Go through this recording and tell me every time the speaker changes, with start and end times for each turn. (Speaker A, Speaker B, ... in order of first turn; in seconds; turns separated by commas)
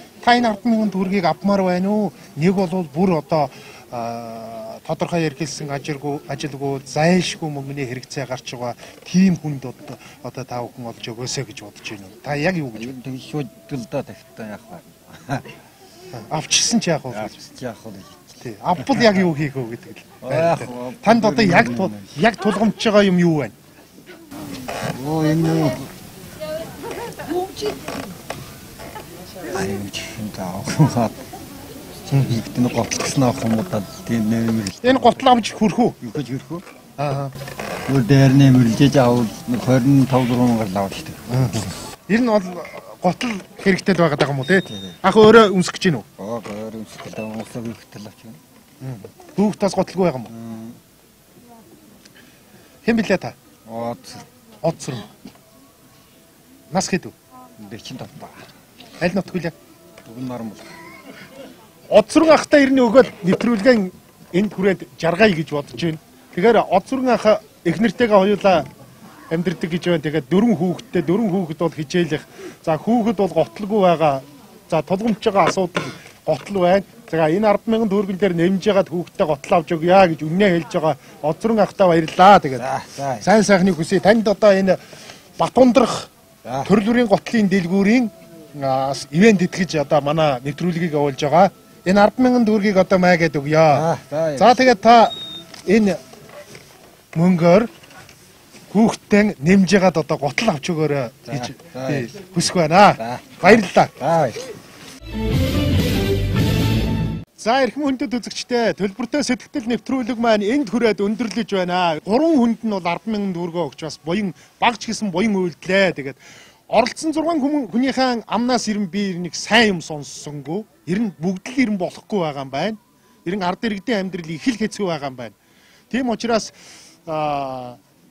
Speaker A: 0.2-12.9, Speaker B: 12.7-15.6, Speaker A: 16.1-17.4, Speaker B: 17.1-18.4, Speaker A: 18.4-23.5, Speaker B: 20.2-22.1, Speaker B: 24.9-25.9, Speaker B: 29.5-31.2, Speaker A: 32.1-32.4, Speaker B: 32.2-35.3, Speaker A: 34.8-36.0, Speaker B: 36.0-36.7, Speaker A: 37.0-37.3, Speaker B: 37.9-41.6, Speaker A: 41.3-46.0, Speaker B: 44.7-45.0, Speaker B: 46.2-48.4, Speaker A: 48.8-50.3, Speaker B: 50.3-50.8, Speaker A: 52.8-53.3, Speaker B: 53.7-54.3, Speaker A: 54.6-55.1, Speaker A: 56.7-57.1, Speaker B: 57.6-58.4, Speaker A: 59.0-59.5, Speaker B: 60.0-60.7, Speaker A: 61.9-68.7, Speaker A: 69.3-82.7, Speaker B: 82.6-83.3, Speaker A: 83.2-84.8, Speaker A: 85.4-86.1, Speaker B: 86.4-86.7, Speaker A: 86.6-96.0, Speaker B: 93.7-94.7, Speaker A: 97.1-97.7, Speaker A: 98.7-103.9, Speaker B: 101.3-104.5, Speaker A: 107.4-125.3, Speaker A: 125.9-127.8